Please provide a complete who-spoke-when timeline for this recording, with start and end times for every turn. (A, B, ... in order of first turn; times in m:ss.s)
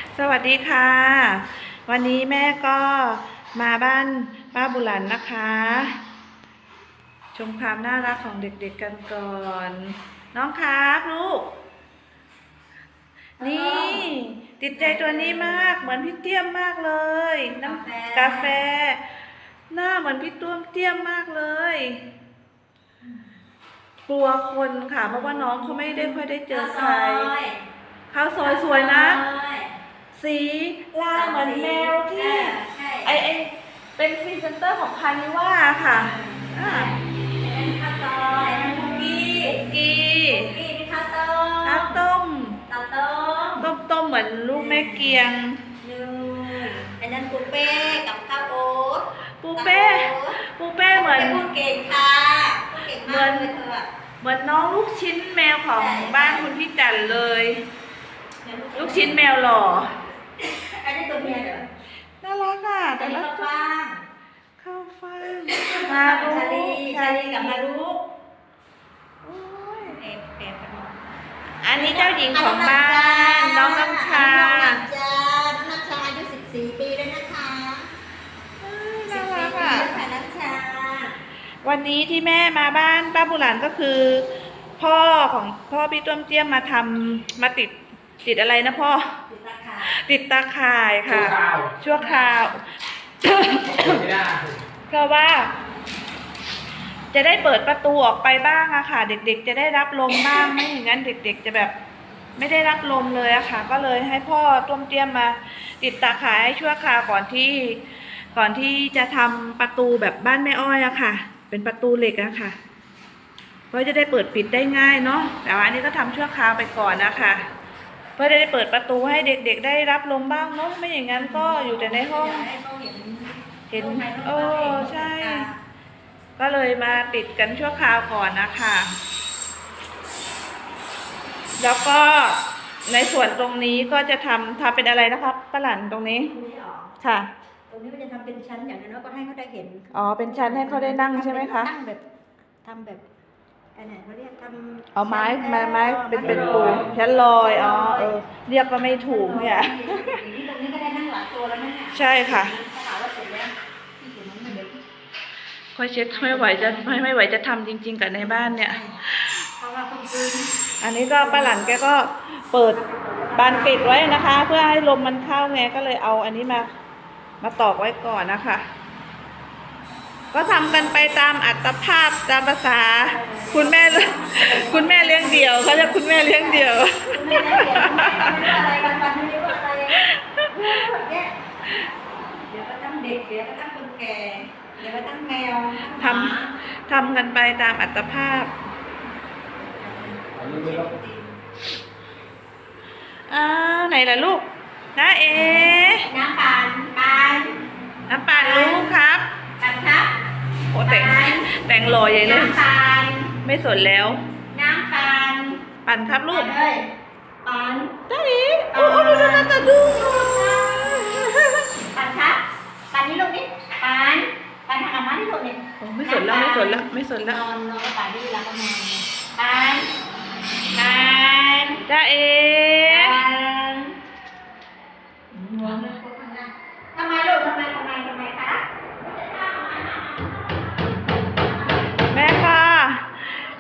0:00.1-0:06.0 A
0:07.4-0:11.5 A
0:13.4-0:14.2 B
0:13.4-0:19.0 A
0:14.7-0:15.9 B
0:17.6-0:18.6 B
0:19.7-0:22.0 A
0:24.1-0:27.3 A
0:25.0-0:27.6 B
0:28.1-0:29.2 A
0:28.4-0:29.7 B
0:30.1-0:36.9 A
0:31.1-0:33.2 B
0:35.9-0:39.6 B
0:39.3-0:40.6 A
0:40.2-0:42.0 B
0:41.6-0:42.6 A
0:42.7-0:43.7 B
0:43.6-0:45.6 A
0:44.5-0:45.3 B
0:45.8-0:50.4 B
0:49.4-0:51.4 A
0:50.9-0:53.9 B
0:53.0-0:53.5 A
0:54.2-0:57.6 A
0:55.7-0:56.5 B
0:58.4-0:59.6 B
0:58.8-0:59.9 A
1:00.4-1:01.7 B
1:02.2-1:03.5 A
1:02.9-1:04.0 B
1:04.6-1:07.6 A
1:05.5-1:08.0 B
1:09.2-1:10.0 A
1:09.8-1:11.0 B
1:11.6-1:14.8 A
1:11.7-1:17.9 B
1:18.6-1:20.0 A
1:19.1-1:21.2 B
1:21.6-1:24.3 A
1:24.8-1:29.1 A
1:29.3-1:30.0 B
1:29.8-1:32.6 A
1:31.1-1:31.8 C
1:31.8-1:32.5 B
1:33.2-1:34.1 A
1:33.8-1:34.6 C
1:34.9-1:35.5 A
1:37.1-1:41.7 A
1:42.4-1:52.6 A
1:53.7-1:57.5 A
1:58.2-2:02.5 A
2:01.1-2:05.6 B
2:03.7-2:05.5 A
2:06.4-2:09.0 A
2:11.6-2:16.3 A
2:16.2-2:17.0 B
2:17.0-2:17.3 A
2:17.7-2:22.0 B
2:19.9-2:21.7 A
2:22.6-2:23.0 B
2:23.8-2:28.1 B
2:25.0-2:30.2 A
2:26.2-2:26.9 C
2:28.9-2:34.8 B
2:31.9-2:32.6 A
2:35.8-2:39.3 A
2:36.1-2:37.1 B
2:38.2-2:39.0 B
2:39.6-2:40.5 B
2:40.8-2:42.8 A
2:41.2-2:41.7 B
2:42.7-2:44.0 B
2:43.4-2:46.7 A
2:47.4-2:48.6 A
2:50.3-2:58.4 A
2:53.1-3:01.4 B
3:00.0-3:00.8 A
3:02.5-3:06.5 B
3:06.0-3:08.5 A
3:09.5-3:11.4 B
3:10.4-3:10.8 C
3:13.3-3:14.4 A
3:15.0-3:16.1 A
3:15.4-3:17.6 B
3:18.1-3:19.2 A
3:18.3-3:18.9 B
3:19.6-3:20.1 B
3:20.7-3:22.6 A
3:20.9-3:21.5 B
3:22.2-3:23.3 B
3:23.4-3:24.2 A
3:24.5-3:25.6 B
3:25.8-3:26.5 A
3:26.3-3:26.8 B
3:27.4-3:27.9 B
3:28.1-3:31.7 A
3:28.7-3:31.0 B
3:31.9-3:39.9 B
3:35.8-3:37.4 A
3:40.8-3:41.8 B
3:41.9-3:43.2 A
3:42.9-3:43.9 B
3:45.3-3:50.3 B
3:52.1-3:53.4 A